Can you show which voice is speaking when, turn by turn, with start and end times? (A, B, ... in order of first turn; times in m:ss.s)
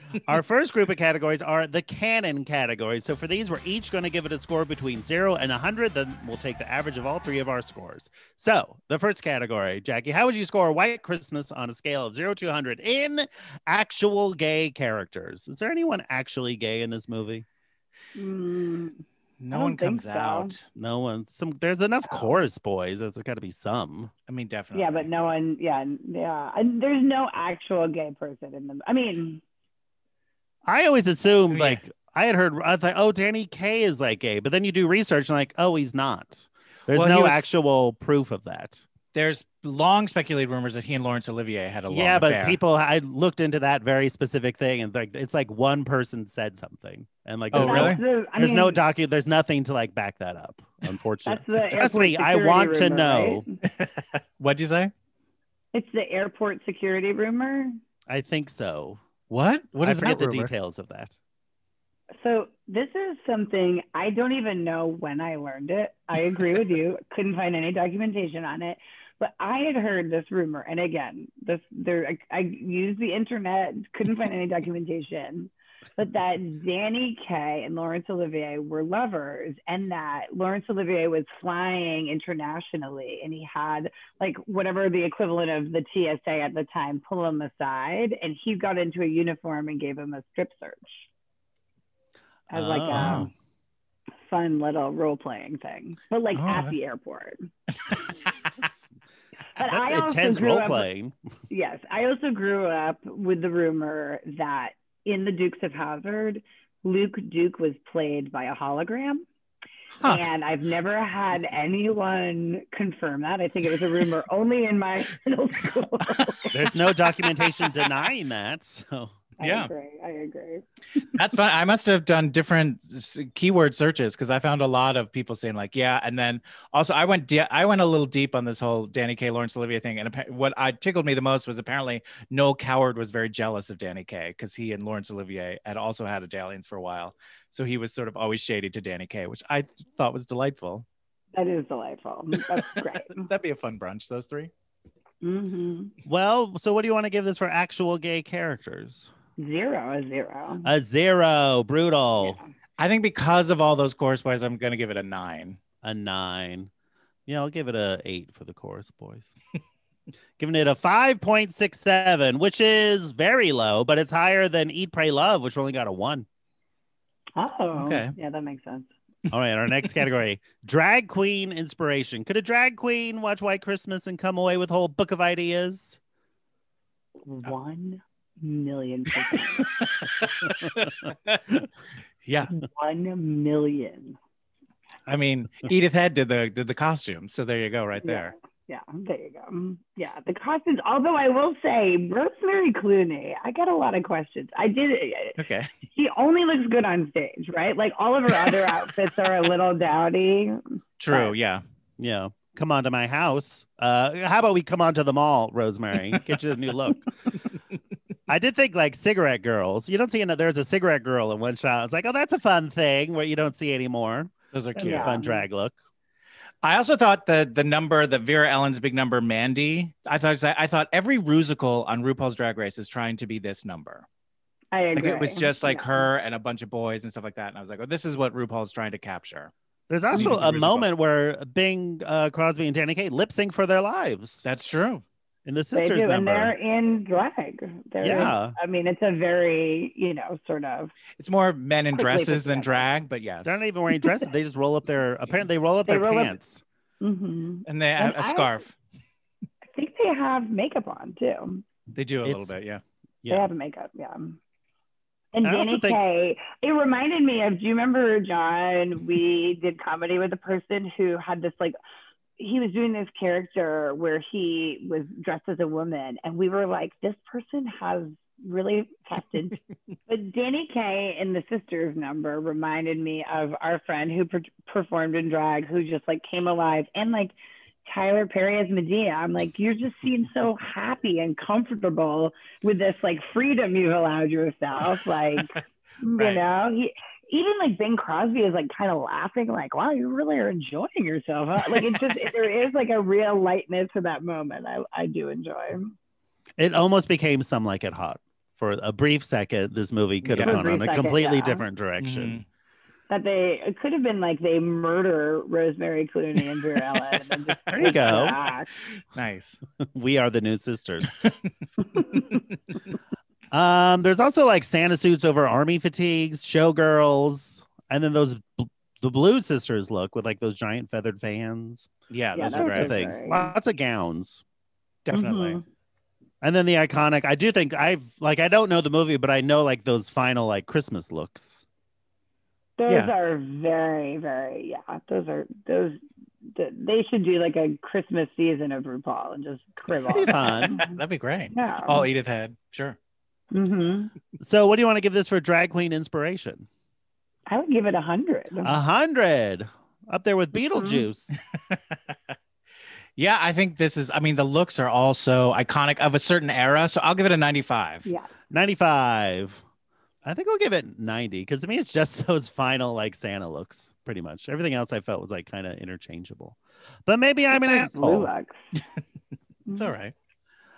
0:00.2-0:17.4 A
0:18.1-0:20.5 B
0:19.4-0:20.6 C
0:20.7-0:24.1 A
0:24.3-0:25.1 C
0:24.7-0:29.4 B
0:30.6-0:38.8 A
0:31.5-0:31.8 C
0:36.9-0:37.4 C
0:39.1-0:42.6 C
0:41.9-0:53.4 A
0:47.5-0:48.0 C
0:47.5-0:48.8 B
0:51.2-0:53.5 B
0:53.6-0:54.9 C
0:55.7-0:57.8 B
0:58.1-0:59.0 A
0:59.3-1:00.5 C
0:59.8-1:01.2 A
1:02.2-1:31.0 B
1:32.5-1:33.3 B
1:32.5-1:33.3 A
1:32.9-1:33.3 C
1:34.2-1:37.5 B
1:36.3-1:36.8 C
1:39.6-1:40.9 B
1:39.6-1:41.1 A
1:41.5-1:49.2 B
1:50.0-1:50.3 C
1:50.0-1:56.6 B
1:56.5-1:59.2 A
1:59.4-2:00.6 B
1:59.4-1:59.7 C
2:01.1-2:20.8 C
2:21.3-2:23.3 B
2:23.1-2:24.5 C
2:25.2-2:25.9 B
2:26.0-2:29.1 A
2:29.4-2:30.7 B
2:30.6-2:32.4 A
2:32.2-2:32.5 B
2:32.8-2:35.6 C
2:35.8-2:36.7 A
2:37.3-2:39.3 A
2:40.4-2:46.2 A
2:47.4-2:48.9 B
2:47.7-2:48.1 C
2:49.3-2:56.0 A
2:57.2-2:59.6 B
2:59.6-3:01.6 C
3:02.2-3:02.5 C
3:02.5-3:04.2 B
3:05.1-3:08.3 C
3:08.0-3:15.4 B
3:15.4-3:15.7 C
3:15.9-3:21.3 B
3:21.0-3:21.6 C
3:22.0-3:27.1 A
3:28.3-3:35.8 A
3:34.5-3:35.1 C
3:34.8-3:35.4 B
3:36.6-3:44.0 C
3:44.7-3:46.1 B
3:44.9-3:49.5 C
3:49.9-3:54.4 A
3:50.1-3:50.9 C
3:54.4-3:55.0 C
3:55.4-3:56.5 A
3:55.7-4:00.9 B
3:58.0-3:58.5 A
4:01.2-4:03.6 C
4:01.9-4:02.8 B
4:03.4-4:06.6 A
4:05.9-4:06.4 B
4:07.0-4:08.5 B
4:07.7-4:08.7 C
4:09.7-4:11.6 B
4:11.9-4:12.8 C
4:12.2-4:12.5 A
4:13.2-4:13.5 A
4:13.3-4:14.4 B
4:15.3-4:21.8 B
4:15.4-4:16.0 A
4:22.4-4:55.9 B
4:46.2-4:46.4 C
4:56.6-5:02.4 A
5:00.2-5:00.6 C
5:00.4-5:01.6 B
5:02.0-5:02.4 C
5:03.1-5:08.7 B
5:07.6-5:08.4 C
5:07.7-5:08.3 A
5:09.0-5:09.6 C
5:09.8-5:11.2 A
5:11.9-5:12.4 B
5:13.5-5:21.9 A
5:22.1-5:22.9 C
5:22.3-5:23.5 B
5:22.5-5:24.4 A
5:25.0-5:25.6 C
5:25.1-5:25.6 B
5:26.4-5:31.6 A
5:32.8-5:41.0 B
5:40.0-5:40.8 A
5:40.4-5:43.0 C
5:41.5-5:42.1 B
5:43.5-5:44.1 B
5:44.4-5:46.7 A
5:47.5-5:48.8 B
5:48.6-5:51.4 A
5:50.5-5:51.0 B
5:51.7-5:52.1 C
5:53.2-5:58.1 C
5:58.5-5:59.6 A
6:00.2-6:08.3 A
6:07.5-6:08.5 B
6:09.7-6:09.9 B
6:09.7-6:10.1 C